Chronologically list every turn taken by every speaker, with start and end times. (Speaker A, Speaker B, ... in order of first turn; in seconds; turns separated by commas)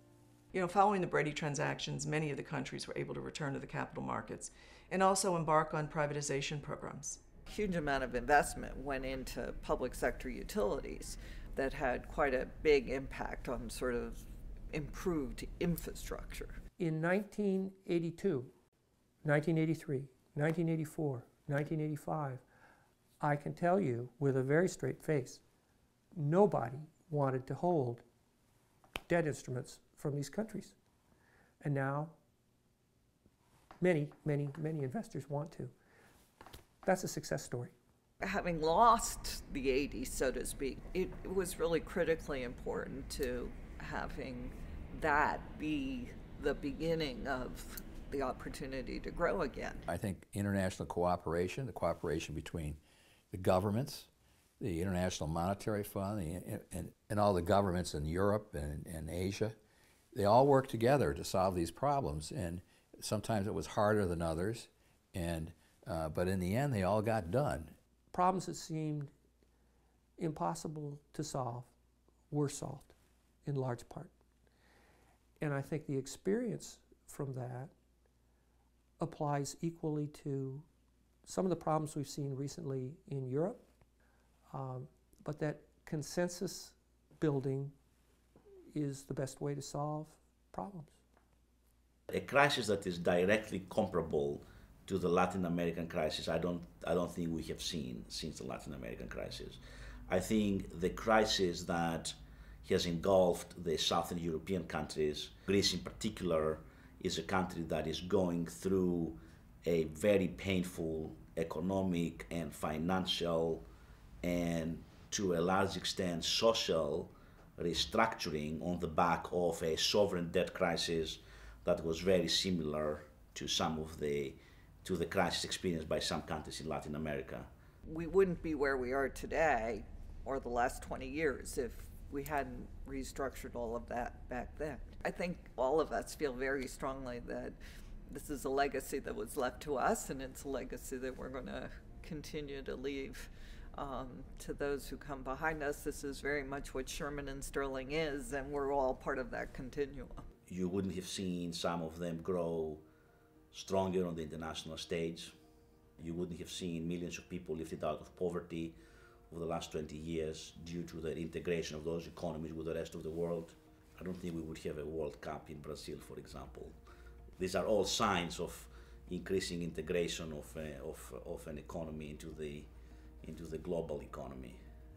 Speaker A: 0.5-7.2, Speaker B: 7.5-16.5, Speaker C: 16.8-18.5, Speaker C: 19.2-22.4, Speaker C: 23.2-25.4, Speaker C: 26.1-28.0, Speaker C: 29.1-30.8, Speaker C: 31.6-32.1, Speaker C: 33.8-35.7, Speaker C: 36.8-37.7, Speaker B: 38.2-49.8, Speaker D: 49.9-52.8, Speaker D: 53.3-54.1, Speaker D: 54.6-59.5, Speaker D: 60.1-67.7, Speaker C: 68.1-69.1, Speaker C: 70.2-71.7, Speaker C: 72.3-74.1, Speaker C: 75.4-77.7, Speaker C: 79.0-80.7, Speaker C: 81.2-83.6, Speaker C: 84.5-87.7, Speaker C: 88.7-91.0, Speaker E: 92.1-113.7, Speaker E: 114.2-127.5, Speaker B: 127.8-150.2, Speaker E: 150.5-152.8, Speaker E: 153.5-155.3, Speaker E: 156.0-166.8, Speaker E: 167.4-174.6